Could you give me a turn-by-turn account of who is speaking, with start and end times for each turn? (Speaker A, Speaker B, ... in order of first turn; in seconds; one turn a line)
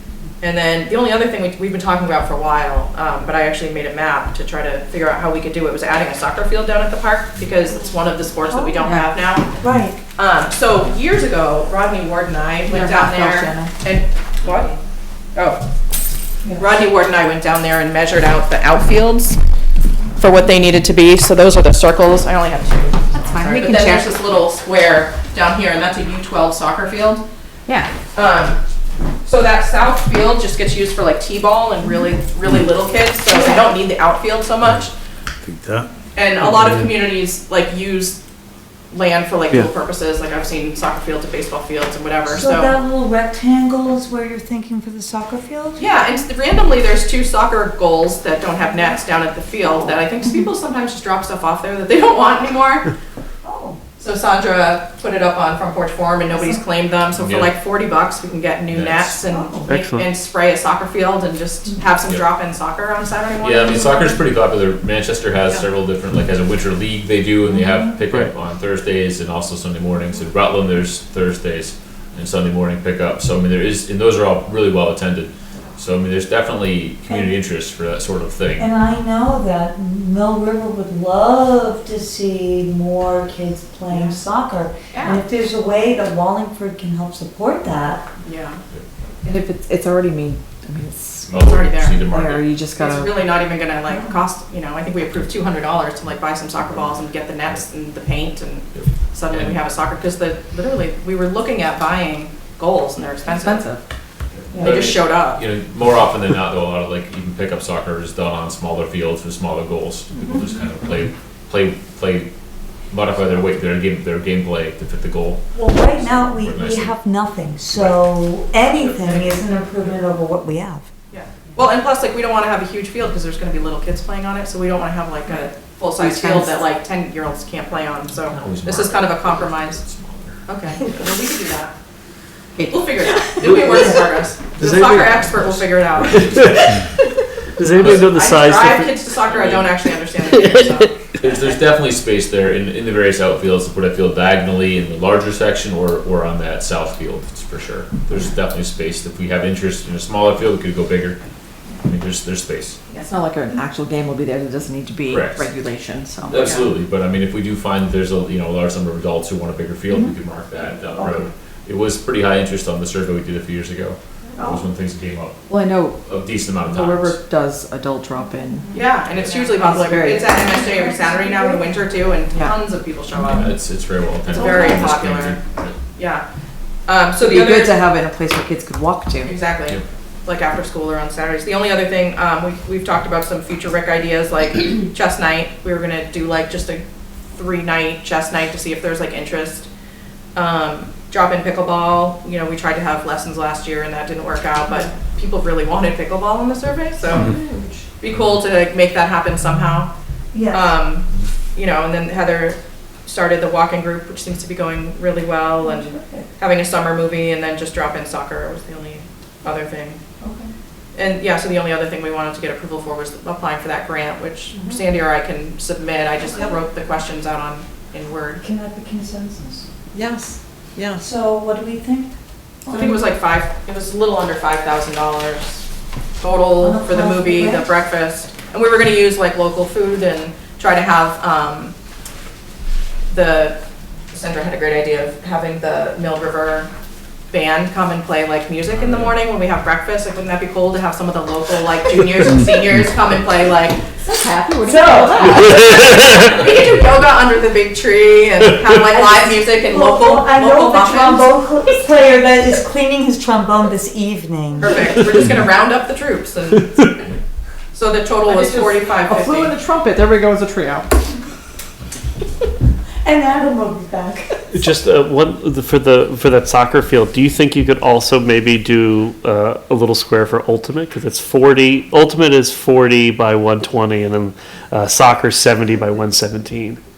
Speaker A: 0.4-9.6
Speaker B: 8.5-8.9
Speaker C: 8.8-9.1
Speaker B: 9.6-10.0
Speaker A: 10.2-14.8
Speaker C: 12.7-13.7
Speaker A: 15.3-15.6
Speaker A: 16.6-19.4
Speaker A: 20.2-27.2
Speaker C: 23.1-24.1
Speaker A: 28.1-28.6
Speaker A: 29.2-34.9
Speaker A: 36.1-38.2
Speaker A: 38.9-42.7
Speaker B: 42.3-45.9
Speaker A: 45.8-52.9
Speaker B: 49.7-50.0
Speaker B: 53.4-53.8
Speaker A: 54.0-64.2
Speaker D: 57.1-57.5
Speaker D: 58.7-59.2
Speaker B: 59.3-59.7
Speaker E: 59.7-60.0
Speaker D: 63.4-78.7
Speaker B: 67.5-67.9
Speaker B: 77.1-77.4
Speaker B: 78.6-88.1
Speaker A: 83.9-84.2
Speaker A: 88.2-88.6
Speaker C: 89.3-91.4
Speaker D: 91.3-92.6
Speaker A: 91.4-92.0
Speaker C: 92.0-93.2
Speaker A: 92.8-103.7
Speaker B: 93.9-94.2
Speaker D: 98.7-99.6
Speaker C: 103.3-103.8
Speaker D: 104.5-112.3
Speaker A: 104.6-105.4
Speaker D: 112.9-117.0
Speaker B: 115.5-120.9
Speaker D: 117.7-118.0
Speaker A: 121.1-129.8
Speaker C: 126.0-126.6
Speaker D: 128.3-131.1
Speaker A: 130.5-131.7
Speaker C: 132.6-134.0
Speaker A: 132.7-136.6
Speaker D: 133.4-133.7
Speaker E: 134.6-135.2
Speaker D: 135.4-136.5
Speaker E: 136.2-136.9
Speaker E: 137.6-139.0
Speaker A: 137.8-140.9
Speaker D: 137.8-138.2
Speaker D: 139.3-139.7
Speaker E: 140.4-141.3
Speaker D: 141.2-151.2
Speaker D: 151.8-152.8
Speaker C: 153.1-156.6
Speaker D: 155.1-155.5
Speaker D: 156.2-165.5
Speaker C: 165.5-168.8
Speaker D: 166.0-167.2
Speaker A: 168.7-173.6
Speaker C: 169.6-170.7
Speaker B: 170.7-171.5
Speaker D: 173.3-175.8
Speaker A: 174.3-175.4
Speaker A: 176.0-176.2
Speaker A: 176.9-177.8
Speaker C: 177.2-179.3
Speaker A: 179.2-189.7
Speaker A: 190.3-197.4
Speaker C: 197.1-197.8
Speaker A: 198.0-199.9
Speaker B: 200.3-200.8
Speaker A: 200.5-210.0
Speaker B: 205.6-206.3
Speaker A: 210.9-218.4
Speaker B: 218.4-219.7
Speaker C: 219.9-221.0
Speaker B: 220.9-223.0
Speaker A: 222.7-225.7
Speaker A: 226.2-231.8
Speaker B: 226.6-227.7
Speaker A: 233.1-233.6
Speaker A: 234.1-236.7
Speaker A: 237.3-243.8
Speaker C: 244.1-245.9
Speaker B: 244.6-245.3
Speaker A: 245.3-251.4
Speaker B: 248.9-254.9
Speaker A: 254.6-257.0
Speaker A: 257.7-259.6
Speaker C: 258.3-260.9
Speaker B: 263.0-264.4
Speaker E: 264.5-276.8